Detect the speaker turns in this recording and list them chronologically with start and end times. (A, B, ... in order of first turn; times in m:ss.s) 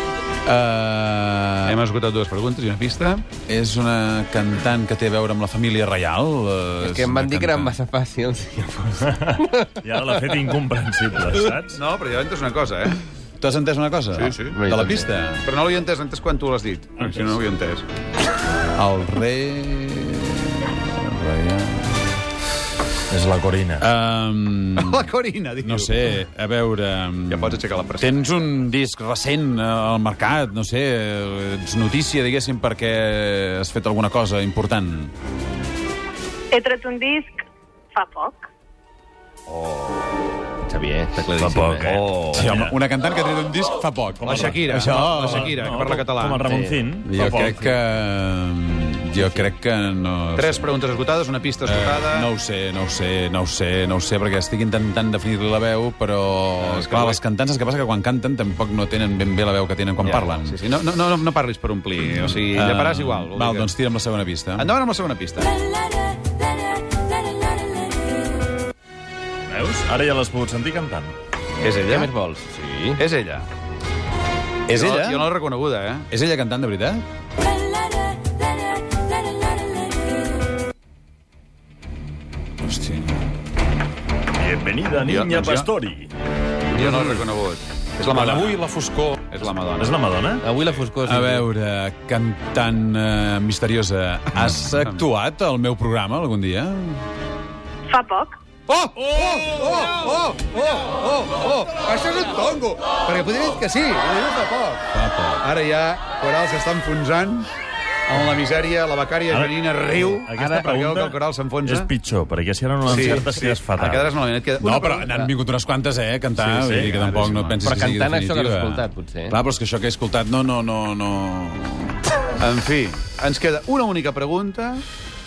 0:00.4-0:01.8 A
0:01.6-0:03.2 B
0:03.5-0:07.8 A
0:06.8-0:10.3 C
0:09.0-0:11.8 D
0:11.7-0:13.0 B
0:13.4-0:15.4 A
0:14.2-0:14.6 B
0:14.2-0:15.1 C
0:15.4-0:17.8 B
0:18.7-0:22.2 A
0:23.1-0:23.9 D
0:23.8-0:25.1 A
0:24.8-0:26.2 B
0:25.6-0:35.1 A
0:27.3-0:28.6 B
0:36.5-0:38.4 E
0:40.6-0:42.0 C
0:41.4-0:42.8 D
0:42.3-0:45.5 A
0:44.2-0:47.5 D
0:44.2-0:46.4 B
0:46.4-0:47.8 C
0:47.0-0:50.7 A
0:49.2-0:49.5 C
0:50.4-0:52.3 B
0:51.6-1:00.6 A
0:56.6-0:57.2 B
1:00.0-1:03.7 B
1:02.4-1:04.7 A
1:04.6-1:05.5 B
1:09.5-1:11.1 D
1:11.6-1:12.1 B
1:11.8-1:13.0 C
1:13.0-1:13.5 B
1:14.7-1:15.3 A
1:14.7-1:16.1 B
1:16.1-1:17.0 A
1:22.6-1:23.1 A
1:24.4-1:26.1 D
1:25.0-1:25.7 B
1:26.7-1:30.0 B
1:26.7-1:27.0 C
1:28.0-1:29.2 D
1:29.8-1:30.4 D
1:30.4-1:31.5 C
1:31.0-1:37.0 A
1:37.9-1:38.4 E
1:38.7-1:44.9 B
1:44.9-1:45.4 A
1:45.4-1:47.5 B
1:48.1-1:51.9 B
1:49.3-1:54.1 D
1:50.3-1:50.7 C
1:52.9-1:55.2 B
1:54.6-2:02.0 A
1:56.4-1:56.8 C
1:56.6-1:57.4 D
1:56.8-1:57.6 B
1:57.6-1:59.4 C
2:02.4-2:04.8 B